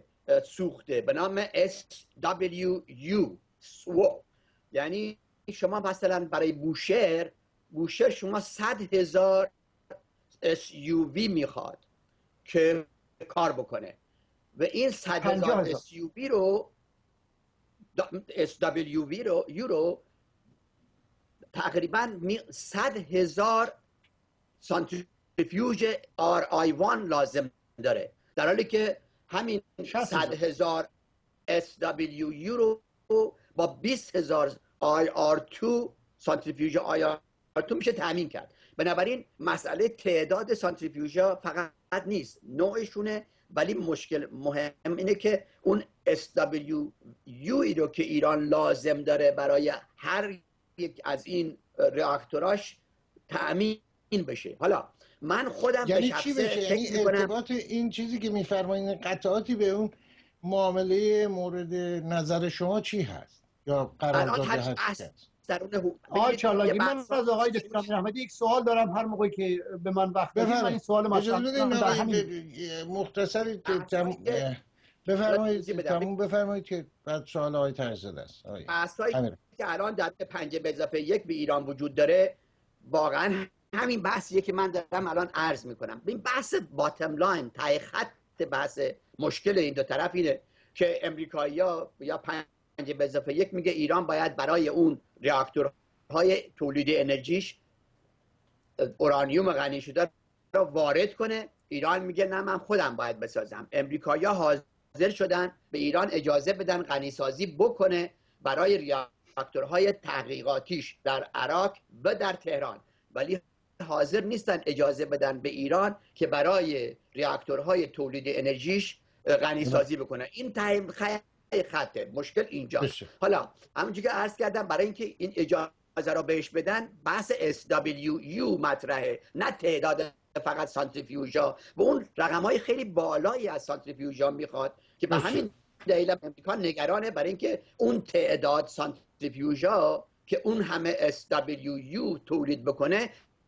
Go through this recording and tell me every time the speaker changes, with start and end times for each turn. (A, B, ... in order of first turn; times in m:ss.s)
0:00.3-0:09.5 A
0:10.4-0:11.8 A
0:12.4-0:14.0 A
0:14.6-0:16.7 A
0:15.2-0:15.8 B
0:18.0-0:20.0 A
0:21.5-0:23.7 A
0:24.6-0:30.9 A
0:29.9-0:30.4 B
0:31.5-0:52.8 A
0:53.3-0:57.3 A
0:55.8-0:59.9 C
1:00.4-1:05.2 C
1:04.1-1:07.9 A
1:06.1-1:12.3 B
1:10.4-1:19.4 C
1:13.6-1:14.4 A
1:15.3-1:16.1 A
1:18.7-1:37.6 A
1:38.8-2:23.1 A
2:02.8-2:03.1 C
2:15.1-2:15.4 C